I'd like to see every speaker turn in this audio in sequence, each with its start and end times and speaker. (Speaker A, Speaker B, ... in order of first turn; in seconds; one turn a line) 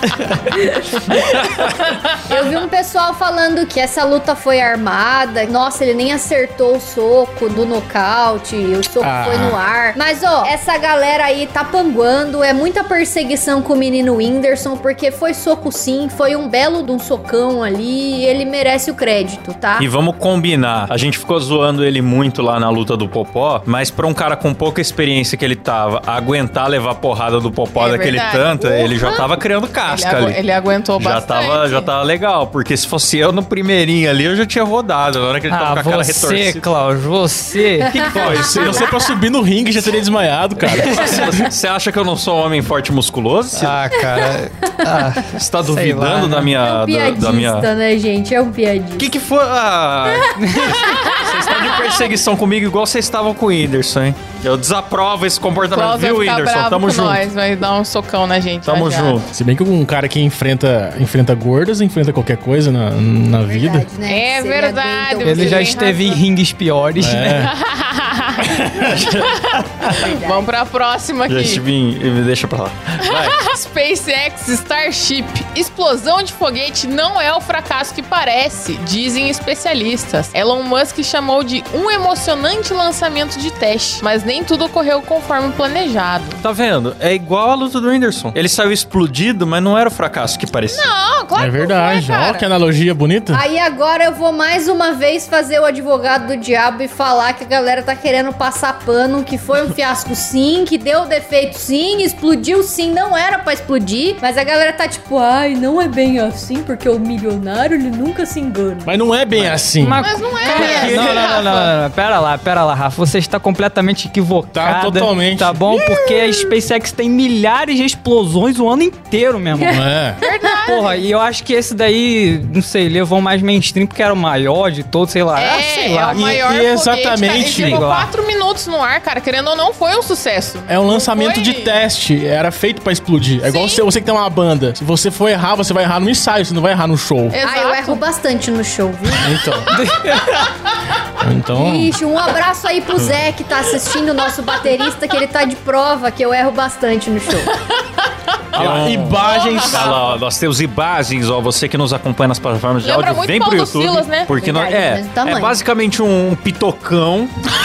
Speaker A: 0.5-1.5
Speaker A: 2.2-19.9
Speaker B: 9.0-9.6
Speaker C: 19.8-30.4
Speaker D: 27.8-28.9
Speaker D: 29.9-31.9
Speaker C: 31.0-36.7
Speaker E: 35.5-38.0
Speaker A: 37.8-39.0
Speaker C: 37.9-38.9
Speaker B: 38.2-41.5
Speaker C: 40.7-43.9
Speaker E: 43.5-46.5
Speaker A: 44.0-45.0
Speaker C: 45.4-47.7
Speaker A: 46.6-49.1
Speaker C: 49.0-57.2
Speaker E: 50.4-50.8
Speaker A: 50.6-51.0
Speaker D: 50.8-51.8
Speaker D: 55.7-59.2
Speaker C: 58.6-59.3
Speaker B: 59.3-63.9
Speaker A: 63.4-65.9
Speaker D: 64.1-66.2
Speaker E: 65.2-67.4
Speaker B: 67.0-67.5
Speaker D: 67.3-71.6
Speaker B: 68.5-68.9
Speaker C: 68.8-69.9
Speaker A: 69.8-70.5
Speaker C: 71.3-73.4
Speaker D: 73.0-86.4
Speaker C: 86.4-90.9
Speaker D: 90.7-92.5
Speaker B: 91.3-93.4
Speaker A: 93.3-108.9
Speaker B: 108.8-110.0
Speaker E: 109.8-119.8
Speaker D: 110.0-111.7
Speaker C: 110.6-111.2
Speaker B: 114.5-115.6
Speaker B: 119.6-120.2
Speaker D: 120.2-121.1
Speaker E: 120.7-126.4
Speaker D: 125.3-131.8
Speaker B: 126.1-127.8
Speaker E: 127.5-128.1
Speaker B: 130.7-137.3
Speaker D: 133.4-133.8
Speaker D: 137.3-138.0
Speaker A: 137.4-139.7
Speaker B: 139.2-139.7
Speaker E: 139.7-140.4
Speaker B: 141.2-141.9
Speaker A: 141.5-147.5
Speaker B: 148.5-149.9
Speaker C: 148.5-157.3
Speaker D: 149.2-150.0
Speaker D: 152.8-154.5
Speaker A: 154.4-155.6